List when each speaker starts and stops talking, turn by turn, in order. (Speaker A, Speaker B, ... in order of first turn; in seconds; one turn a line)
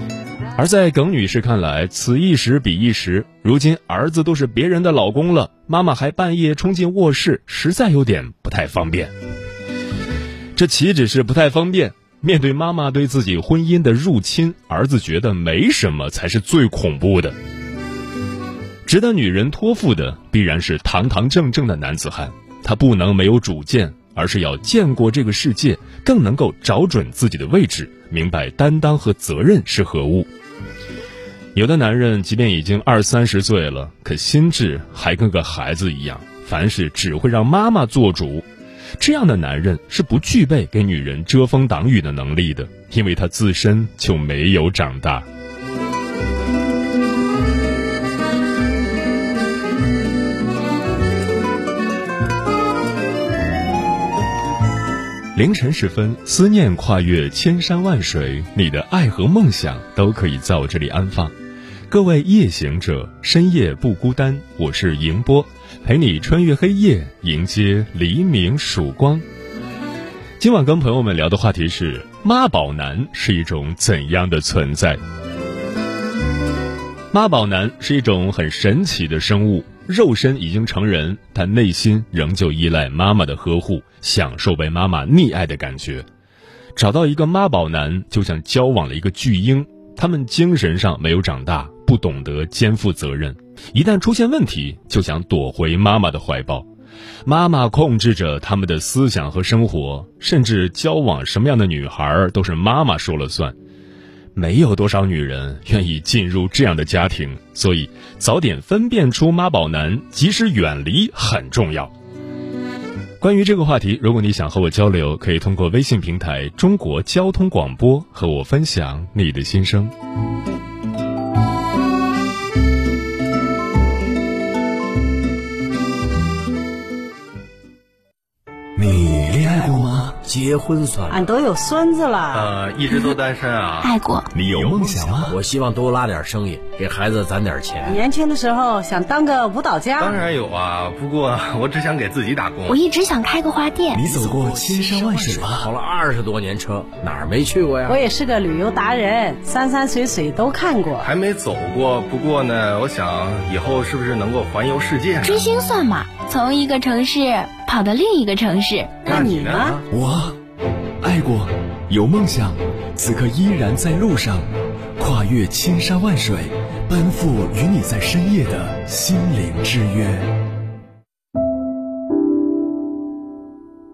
Speaker A: 0.6-9.1
Speaker A: 10.5-17.4
Speaker A: 18.9-30.3
Speaker A: 31.5-38.5
Speaker A: 39.0-45.2
Speaker A: 55.3-61.3
Speaker A: 61.9-69.2
Speaker A: 70.4-75.0
Speaker A: 77.1-86.0
Speaker A: 86.8-96.7
Speaker A: 97.2-103.5
Speaker A: 104.3-111.9
Speaker A: 113.2-119.9
Speaker B: 128.8-129.2
Speaker C: 129.4-131.2
Speaker D: 131.1-132.5
Speaker E: 132.3-133.9
Speaker F: 133.8-134.3
Speaker A: 134.3-135.3
Speaker E: 134.6-134.9
Speaker C: 135.2-138.0
Speaker D: 137.8-140.2
Speaker E: 140.0-142.8
Speaker F: 142.7-144.1
Speaker C: 143.9-148.0
Speaker B: 144.1-145.7
Speaker A: 144.1-145.4
Speaker D: 147.9-151.1
Speaker E: 151.0-155.4
Speaker F: 155.2-159.1
Speaker D: 159.0-159.8
Speaker E: 159.0-159.8
Speaker B: 159.9-160.4
Speaker B: 161.0-164.4
Speaker A: 161.0-161.4
Speaker A: 162.1-163.9
Speaker B: 165.0-170.3
Speaker A: 165.2-166.3